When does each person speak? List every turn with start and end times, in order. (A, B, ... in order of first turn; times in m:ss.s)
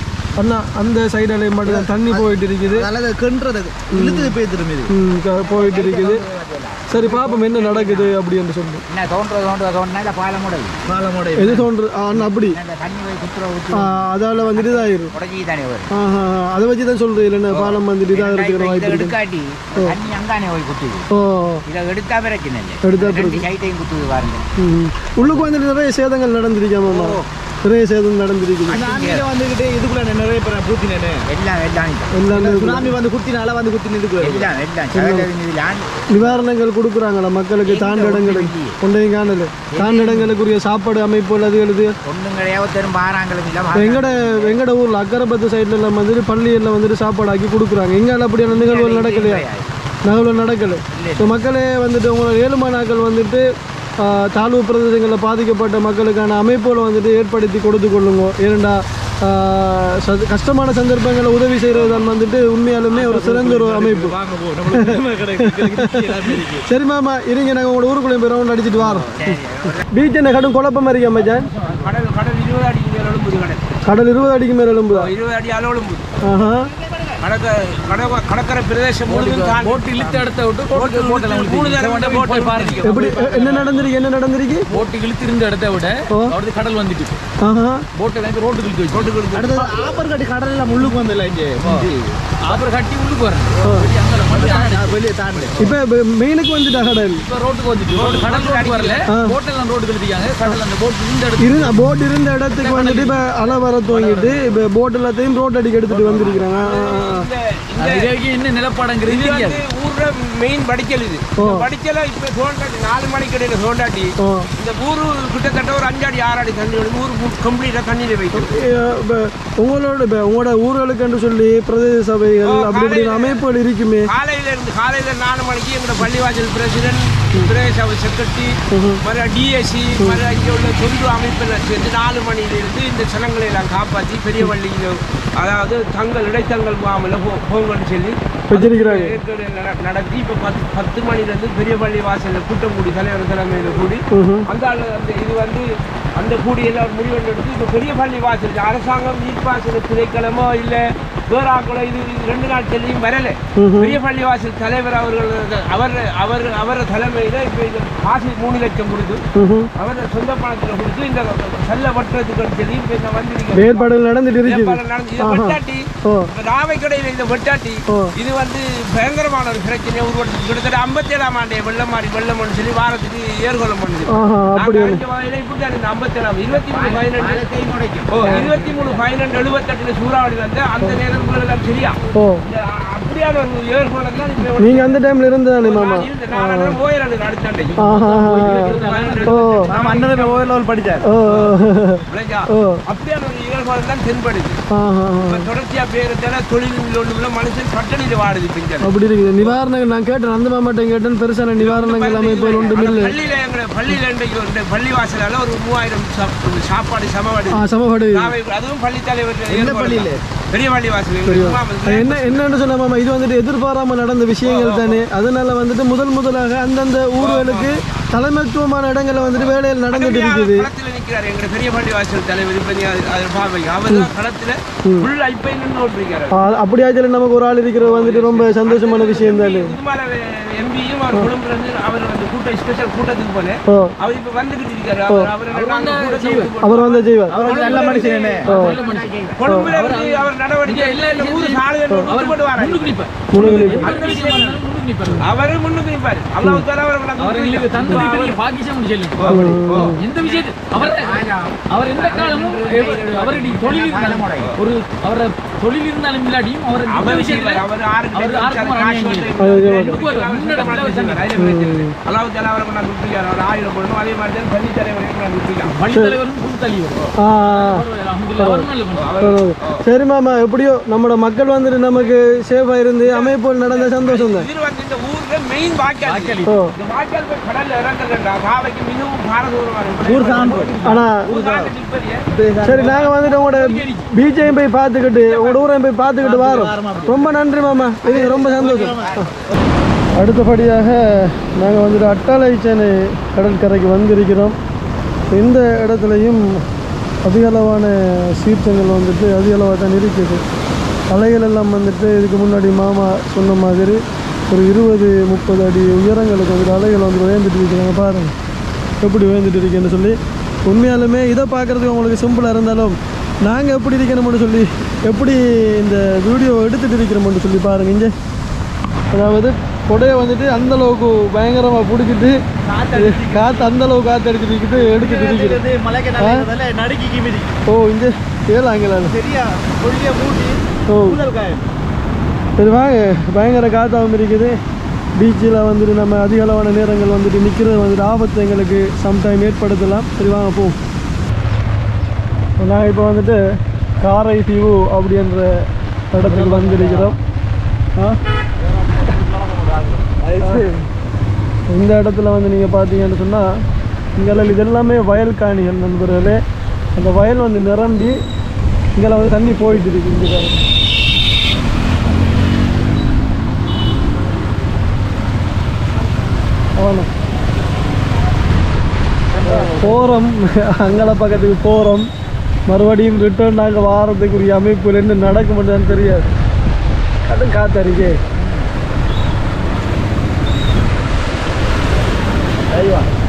0:00.4-0:02.9 A
0:01.7-0:04.9 B
0:03.9-0:04.4 A
0:04.9-0:06.2 A
0:05.4-0:08.2 C
0:06.9-0:08.8 A
0:08.9-0:10.9 C
0:10.9-0:11.7 B
0:11.4-0:12.6 A
0:12.1-0:15.9 C
0:13.7-0:15.1 A
0:15.9-0:19.2 A
0:18.1-0:21.1 C
0:21.1-0:21.6 A
0:21.7-0:24.5 C
0:22.8-0:23.4 A
0:24.6-0:28.8 A
0:25.2-0:25.5 C
0:26.8-0:27.2 B
0:28.7-0:31.3 B
0:28.7-0:29.3 C
0:31.3-0:32.1 C
0:32.1-0:32.9 A
0:32.3-0:34.5 B
0:34.2-0:36.4 C
0:34.9-0:35.3 A
0:36.1-0:41.9 A
0:37.6-0:38.8 C
0:39.7-0:40.4 C
0:42.0-0:44.6 C
0:43.7-0:49.4 A
0:48.5-0:49.8 C
0:50.0-0:53.4 A
0:50.9-0:51.4 C
0:54.0-1:04.2 A
1:01.7-1:02.1 B
1:02.9-1:06.7 B
1:05.5-1:09.4 A
1:08.8-1:09.9 C
1:09.9-1:11.5 A
1:11.2-1:11.8 C
1:11.8-1:13.6 D
1:13.8-1:15.1 A
1:14.9-1:16.1 D
1:16.2-1:16.7 A
1:17.2-1:23.8 D
1:19.1-1:23.1 E
1:22.8-1:24.7 A
1:24.7-1:27.2 E
1:27.4-1:27.8 A
1:28.0-1:29.1 E
1:28.9-1:29.7 D
1:29.3-1:32.6 B
1:32.4-1:35.0 E
1:33.6-1:33.9 A
1:34.2-1:35.7 B
1:35.6-1:37.2 A
1:37.2-1:41.7 E
1:37.9-1:39.1 D
1:39.1-1:39.4 A
1:41.4-1:47.3 A
1:42.5-1:44.6 E
1:45.9-1:48.1 D
1:47.8-1:49.6 E
1:49.0-1:58.5 D
1:51.4-1:51.7 A
1:54.2-1:54.5 A
1:58.3-2:04.1 A
2:02.4-2:03.4 D
2:04.0-2:39.2 D
2:08.7-2:09.0 A
2:18.5-2:19.1 A
2:24.1-2:24.5 A
2:33.6-2:34.0 A
2:39.4-2:39.7 A
2:39.8-2:43.9 D
2:43.5-2:46.3 A
2:44.4-2:57.5 D
2:54.1-2:55.0 A
2:56.5-2:59.1 C
2:58.1-3:05.0 D
2:58.2-2:58.5 A
3:02.2-3:02.4 A
3:04.6-3:06.8 A
3:05.6-3:07.8 D
3:07.8-3:09.9 E
3:07.8-3:09.7 A
3:08.4-3:10.6 D
3:09.7-3:11.1 B
3:11.0-3:12.8 A
3:12.1-3:14.6 D
3:14.7-3:15.5 A
3:15.3-3:19.5 D
3:18.8-3:23.2 A
3:21.6-3:32.5 D
3:27.5-3:28.3 A
3:29.5-3:30.2 B
3:31.2-3:40.7 A
3:34.4-3:35.0 D
3:37.2-3:38.1 D
3:39.3-3:46.4 D
3:44.8-3:45.1 A
3:46.3-3:49.8 A
3:47.8-3:58.5 D
3:53.7-3:53.9 A
3:55.5-3:56.5 E
3:56.6-3:57.4 A
3:57.3-3:58.5 B
3:57.4-4:05.3 E
3:57.4-3:59.4 C
3:58.5-3:58.8 A
3:59.4-4:04.6 D
3:59.5-3:59.7 A
4:03.3-4:03.9 A
4:05.2-4:08.4 D
4:07.2-4:17.6 E
4:09.2-4:10.0 D
4:09.3-4:10.0 A
4:10.4-4:14.6 C
4:16.9-4:25.8 D
4:18.1-4:21.3 E
4:19.4-4:20.0 A
4:21.3-4:21.9 A
4:25.7-4:29.2 E
4:27.2-4:27.8 A
4:28.4-4:28.7 A
4:29.0-4:29.8 D
4:29.2-4:34.5 A
4:33.0-4:42.2 D
4:36.0-4:36.5 E
4:36.5-4:36.7 A
4:40.0-4:41.7 B
4:40.5-4:41.0 E
4:40.9-4:41.3 A
4:42.3-4:43.0 B
4:42.6-4:49.0 A
4:42.9-4:44.1 E
4:45.2-4:45.6 D
4:46.2-4:49.3 B
4:48.3-4:49.2 C
4:50.2-4:54.6 A
4:55.3-4:56.4 A
4:57.2-5:00.4 A
5:01.1-5:04.0 A
5:04.5-5:08.3 A
5:09.0-5:18.1 A
5:19.1-5:22.4 A
5:22.6-5:23.7 B
5:23.0-5:25.6 A
5:24.7-5:27.6 B
5:26.2-5:26.5 A
5:27.7-5:29.2 A
5:29.1-5:31.7 B
5:30.9-5:31.2 A
5:32.6-5:34.6 A
5:35.2-5:40.8 A
5:42.6-5:43.4 A
5:44.0-5:47.2 A
5:46.2-5:47.2 B
5:48.8-5:50.7 B
5:50.4-5:50.8 A
5:51.7-5:53.5 A
5:54.2-5:56.4 A
5:57.0-5:58.2 A
5:59.0-6:00.6 A
6:06.8-6:07.1 A
6:09.4-6:10.0 B
6:09.5-6:12.1 A
6:12.7-6:16.3 A
6:17.3-6:18.2 A
6:22.7-6:23.1 B